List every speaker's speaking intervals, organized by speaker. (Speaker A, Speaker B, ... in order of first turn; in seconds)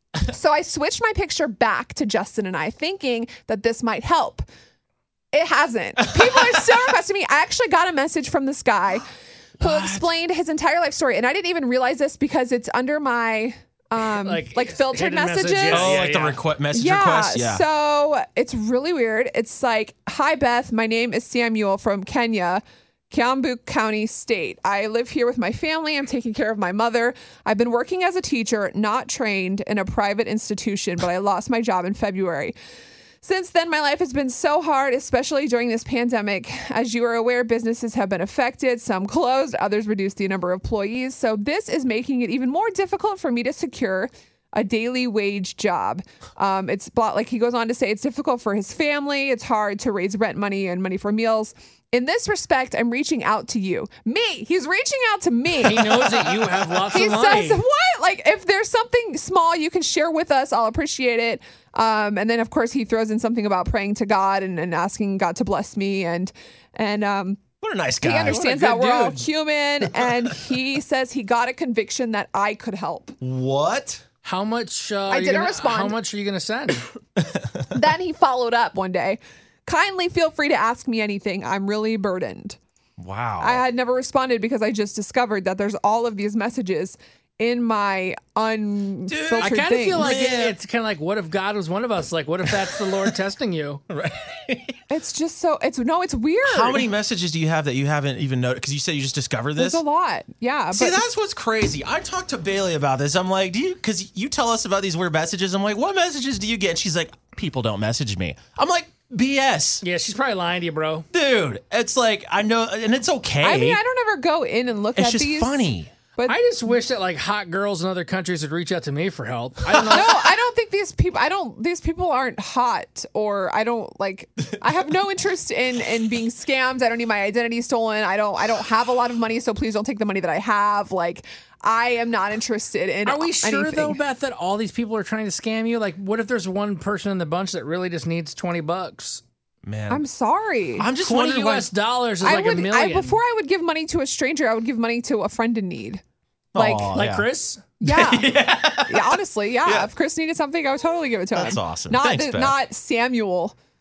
Speaker A: 0.3-4.5, 5.3-9.1, 9.6-16.0, 16.7-32.5, 33.2-67.4, 68.0-73.1, 75.1-76.0, 77.7-82.6, 83.4-90.2, 94.9-96.9, 99.6-101.0, 113.4-116.6, 119.9-134.0, 139.9-140.9, 142.2-146.0, 146.6-146.9, 147.8-148.4, 148.9-153.6
Speaker B: 9.6-10.1, 15.7-17.6, 67.6-69.2, 73.2-74.0, 77.3-77.8, 83.0-83.7, 89.1-90.6, 92.5-93.1, 93.9-94.8, 96.4-99.8, 100.7-109.8, 111.1-113.8, 115.0-115.9, 139.7-140.0, 140.8-141.7, 146.5-147.3, 147.8-149.9, 151.3-152.6
Speaker C: 14.1-16.4, 55.6-57.6, 68.3-68.8, 74.2-76.9, 89.4-93.8, 109.8-111.0, 116.3-120.2, 133.1-139.2, 141.0-143.2, 146.9-147.6